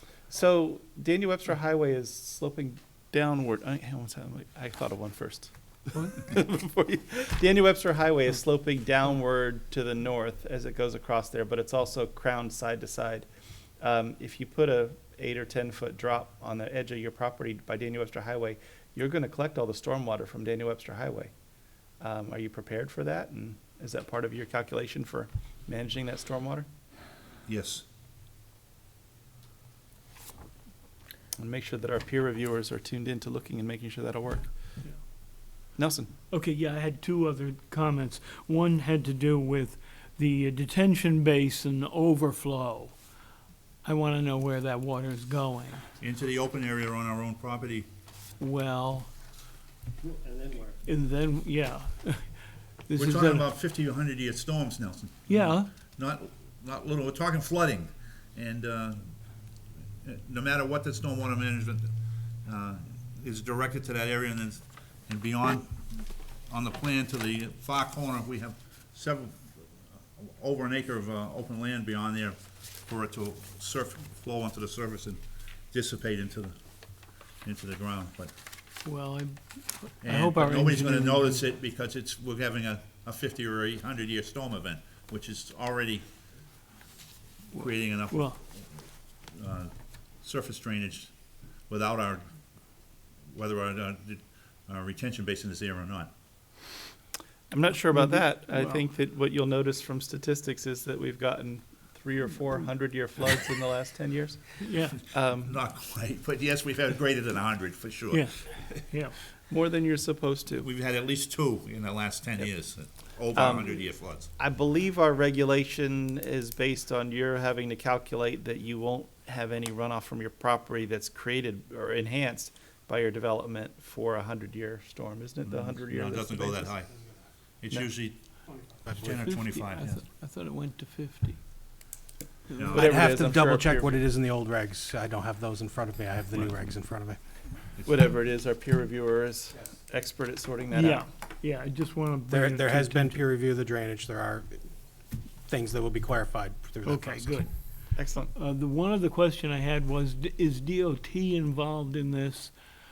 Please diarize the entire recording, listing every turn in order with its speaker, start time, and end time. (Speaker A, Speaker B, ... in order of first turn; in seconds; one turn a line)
Speaker A: 0.3-13.3
Speaker A: 13.8-21.3
Speaker A: 22.0-26.7
Speaker B: 27.5-27.8
Speaker A: 31.4-34.5
Speaker A: 35.8-36.1
Speaker C: 36.3-43.0
Speaker C: 43.8-45.9
Speaker B: 46.0-47.9
Speaker C: 48.4-49.1
Speaker C: 50.8-53.5
Speaker B: 52.9-59.1
Speaker C: 55.3-55.7
Speaker B: 60.0-61.9
Speaker B: 62.4-65.8
Speaker B: 66.5-69.6
Speaker B: 70.2-75.2
Speaker B: 75.7-76.5
Speaker B: 77.4-78.3
Speaker C: 78.8-81.4
Speaker B: 80.0-86.0
Speaker B: 87.5-88.3
Speaker C: 87.6-88.4
Speaker B: 89.3-91.1
Speaker B: 91.7-92.3
Speaker B: 93.3-96.1
Speaker A: 97.5-105.6
Speaker C: 97.9-98.8
Speaker C: 104.6-105.0
Speaker B: 105.3-108.8
Speaker C: 108.1-109.2
Speaker A: 109.5-110.7
Speaker B: 110.6-114.3
Speaker A: 113.3-126.8
Speaker B: 125.4-127.0
Speaker B: 127.6-128.2
Speaker B: 128.8-130.0
Speaker C: 129.1-131.8
Speaker C: 132.5-132.8
Speaker B: 132.6-132.9
Speaker A: 132.7-134.0
Speaker D: 132.8-137.2
Speaker A: 137.8-141.1
Speaker C: 140.7-143.2
Speaker D: 142.3-144.6
Speaker D: 145.4-147.5
Speaker C: 146.8-147.5
Speaker A: 147.9-148.3
Speaker C: 148.2-152.5